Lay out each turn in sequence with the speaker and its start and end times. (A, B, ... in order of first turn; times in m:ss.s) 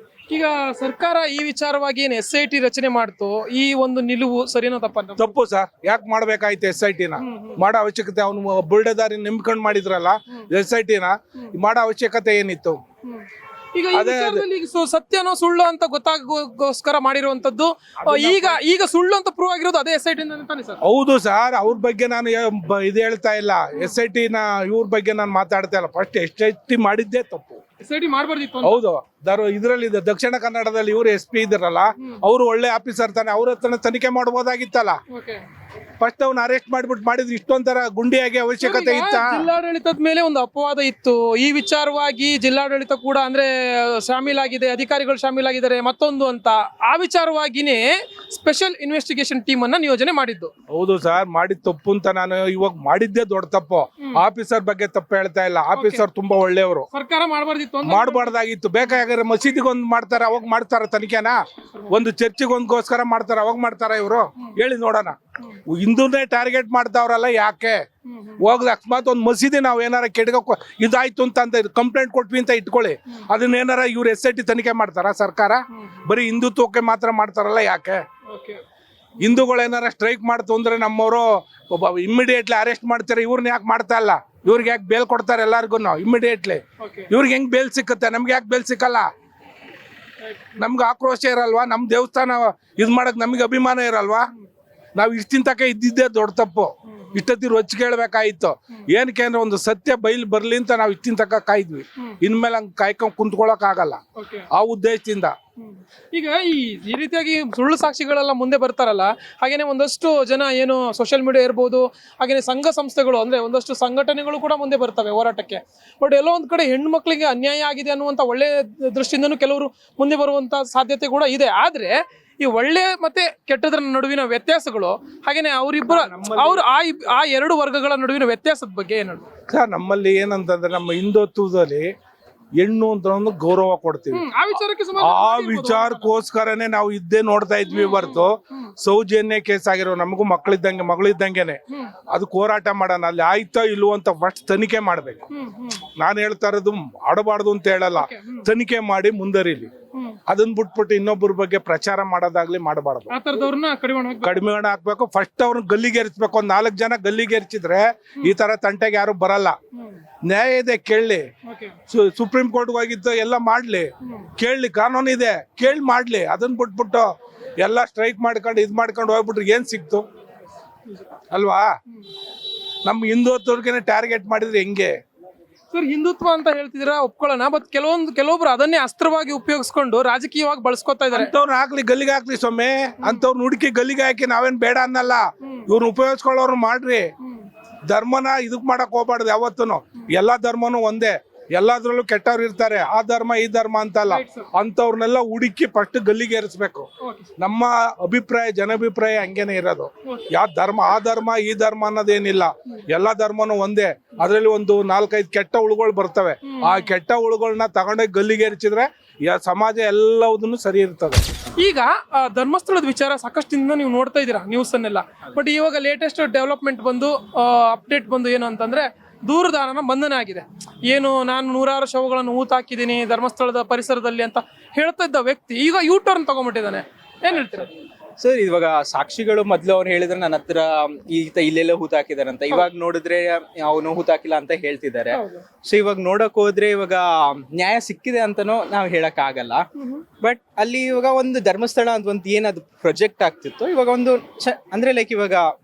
0:00.3-0:05.3 A
0:05.2-0:12.8 B
0:07.2-0:07.6 A
0:13.1-0:20.8 A
0:13.9-0:14.4 B
0:18.0-0:18.6 B
0:20.8-0:27.6 B
0:27.8-0:28.8 A
0:28.6-0:35.0 B
0:35.1-0:35.4 A
0:36.0-0:39.3 B
0:38.6-0:50.5 A
0:50.7-0:56.9 B
0:55.8-0:56.1 A
0:56.9-0:59.0 A
0:57.8-1:01.4 B
1:01.9-1:05.2 B
1:05.7-1:07.8 B
1:08.1-1:08.4 A
1:08.4-1:18.0 B
1:15.7-1:16.0 A
1:18.3-1:18.6 A
1:19.2-1:29.1 B
1:26.8-1:27.1 A
1:30.2-1:30.7 A
1:30.6-1:34.3 B
1:35.0-1:44.0 B
1:44.2-1:44.5 A
1:44.5-1:45.3 B
1:45.6-2:09.2 A
2:05.8-2:06.6 B
2:09.5-2:11.9 B
2:12.6-2:14.2 B
2:14.1-2:16.1 A
2:15.0-2:21.6 B
2:17.7-2:18.6 A
2:22.1-2:25.3 B
2:25.3-2:25.8 A
2:26.0-2:29.7 B
2:28.0-2:28.5 A
2:30.3-2:33.1 B
2:33.1-2:34.4 A
2:34.2-2:39.6 B
2:40.2-2:41.2 B
2:41.5-2:41.8 A
2:41.9-2:47.1 B
2:44.0-2:44.3 A
2:47.6-2:50.0 B
2:51.3-2:51.7 B
2:52.8-2:55.0 B
2:55.7-3:01.3 A
3:01.1-3:07.1 B
3:07.9-3:31.2 B
3:14.1-3:14.5 A
3:17.0-3:17.3 A
3:26.5-3:26.9 A
3:31.6-3:47.7 A
3:48.2-3:50.6 C
3:51.2-3:55.0 C
3:55.1-3:55.4 A
3:55.7-3:57.0 C
3:57.6-3:59.5 C
3:59.8-4:00.0 A
4:00.2-4:05.4 C